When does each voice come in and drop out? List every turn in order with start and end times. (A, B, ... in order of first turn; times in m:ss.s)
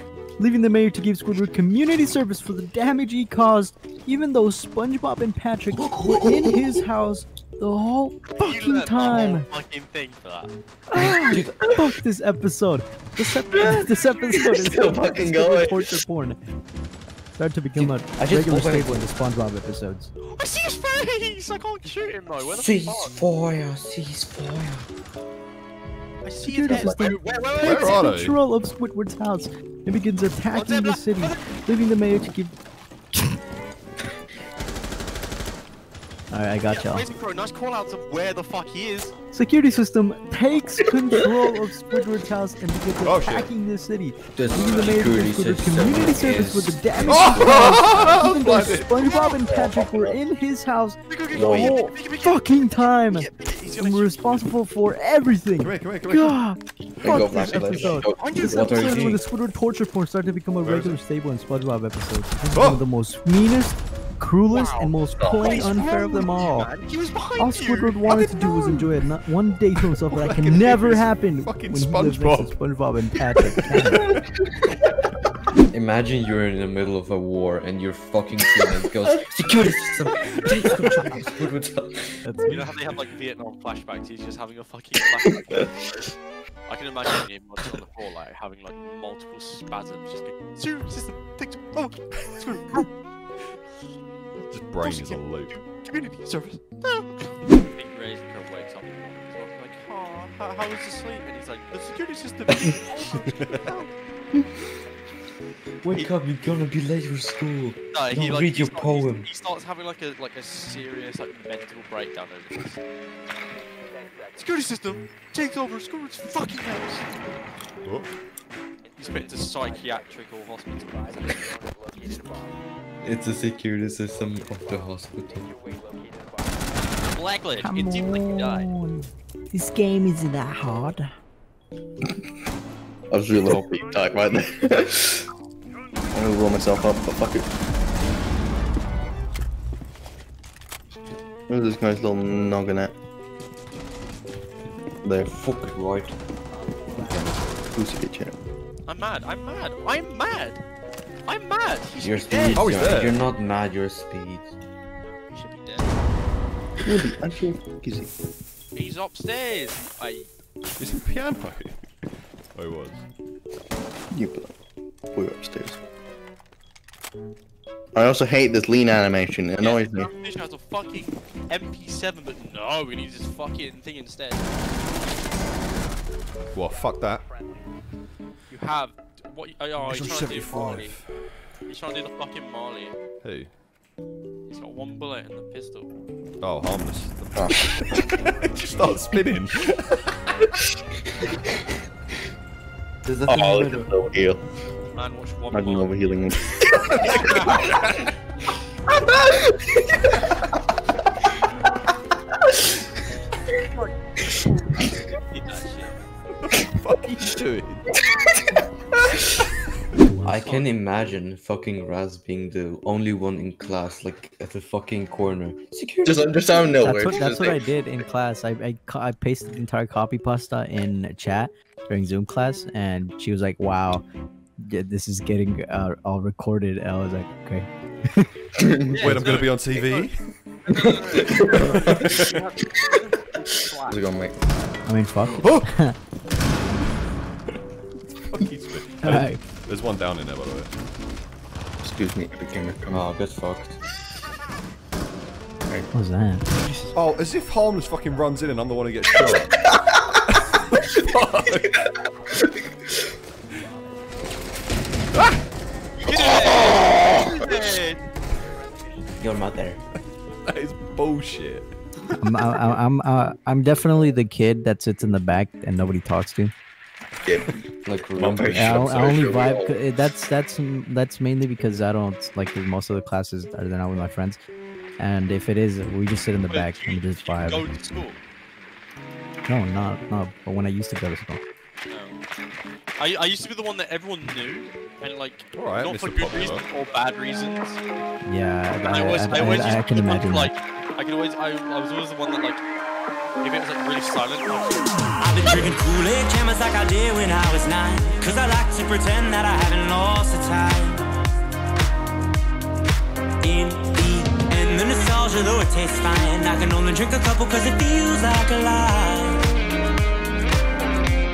0:00.4-0:09.5 A
0:05.7-0:06.2 B
0:08.4-0:10.5 C
0:10.9-0:16.4 A
0:11.0-0:11.7 B
0:13.5-0:13.8 D
0:14.4-0:15.9 D
0:17.4-0:20.1 A
0:17.7-0:19.0 B
0:20.3-0:23.2 C
0:22.4-0:24.9 B
0:26.2-0:28.0 C
0:26.4-0:32.5 A
0:27.6-0:28.4 E
0:30.5-0:31.4 C
0:36.3-0:37.0 A
0:36.7-0:39.1 C
0:39.3-1:06.7 A
0:43.0-0:43.5 E
0:44.3-0:48.1 B
0:47.1-0:49.0 E
0:49.0-0:49.4 C
0:49.4-0:50.2 D
0:51.1-0:52.4 C
0:51.3-0:51.8 D
0:53.0-0:54.5 C
0:55.6-0:56.4 E
0:57.0-0:59.0 D
0:57.2-0:57.6 E
0:58.2-0:58.8 C
0:58.5-0:59.2 B
1:00.6-1:01.0 E
1:02.5-1:02.8 E
1:04.5-1:08.1 C
1:05.2-1:05.6 D
1:07.4-1:14.1 A
1:08.1-1:09.0 E
1:10.1-1:12.6 E
1:13.6-1:14.1 E
1:15.7-1:22.2 B
1:22.2-1:22.7 A
1:22.5-1:26.1 C
1:26.7-1:32.9 C
1:34.5-1:35.5 E
1:34.8-1:43.9 C
1:43.4-1:43.7 E
1:45.8-1:49.3 B
1:47.9-1:52.8 C
1:54.3-1:57.1 C
1:57.8-1:58.2 E
1:59.0-2:01.5 C
2:03.0-2:05.5 B
2:07.1-2:08.7 C
2:07.6-2:11.1 A
2:13.1-2:15.3 D
2:16.1-2:17.5 D
2:21.5-2:22.9 D
2:25.0-2:25.3 D
2:25.2-2:26.1 B
2:27.0-2:28.4 D
2:28.9-2:30.6 C
2:31.2-2:32.7 C
2:32.0-2:34.6 B
2:32.5-2:33.2 E
2:35.3-2:35.9 C
2:36.8-2:38.1 D
2:38.7-2:40.3 C
2:40.8-2:41.8 E
2:42.5-2:43.1 E
2:44.1-2:44.5 D
2:45.1-2:45.8 D
2:47.9-2:50.1 D
2:49.6-2:54.5 C
2:56.5-2:57.2 E
2:58.5-3:01.0 C
2:59.8-3:01.6 E
3:01.7-3:03.0 C
3:03.2-3:03.5 E
3:04.5-3:05.9 C
3:06.4-3:10.4 E
3:13.0-3:13.9 B
3:13.3-3:14.4 D
3:14.9-3:16.2 C
3:15.5-3:17.5 D
3:17.0-3:18.0 E
3:17.0-3:17.7 C
3:19.0-3:20.0 D
3:25.3-3:26.0 C
3:26.5-3:27.9 E
3:30.0-3:30.3 A
3:30.2-3:36.4 B
3:30.4-3:30.7 C
3:36.0-3:37.6 D
3:36.8-3:44.0 A
3:44.6-3:48.3 A
3:48.6-3:49.4 D
3:48.9-3:50.1 C
3:49.0-3:50.2 E
3:50.7-3:54.2 C
3:50.8-3:52.2 D
3:51.5-3:52.4 E
3:53.8-3:54.4 D
3:54.8-3:55.9 A
3:55.2-3:55.7 E
3:58.3-4:00.7 E
3:59.0-3:59.4 A
4:01.8-4:03.1 D
4:02.9-4:03.8 B
4:05.9-4:06.4 A
4:06.6-4:06.9 B
4:06.9-4:09.6 E
4:09.1-4:10.0 D
4:10.3-4:11.8 E
4:16.0-4:18.0 C
4:19.2-4:19.8 B
4:20.4-4:21.7 E
4:22.2-4:26.5 A
4:27.2-4:27.5 E
4:27.2-4:27.5 D
4:27.8-4:28.8 B
4:28.1-4:28.9 E
4:28.5-4:34.4 A
4:28.7-4:29.8 D
4:35.0-4:37.6 A
4:36.5-4:38.2 C
4:39.5-4:41.4 A
4:41.9-4:42.2 C
4:43.0-4:47.8 C
4:45.5-4:46.7 E
4:48.2-4:50.5 A
4:48.8-4:52.6 C
4:53.4-4:55.1 C
4:55.2-5:01.0 F
5:03.4-5:09.4 F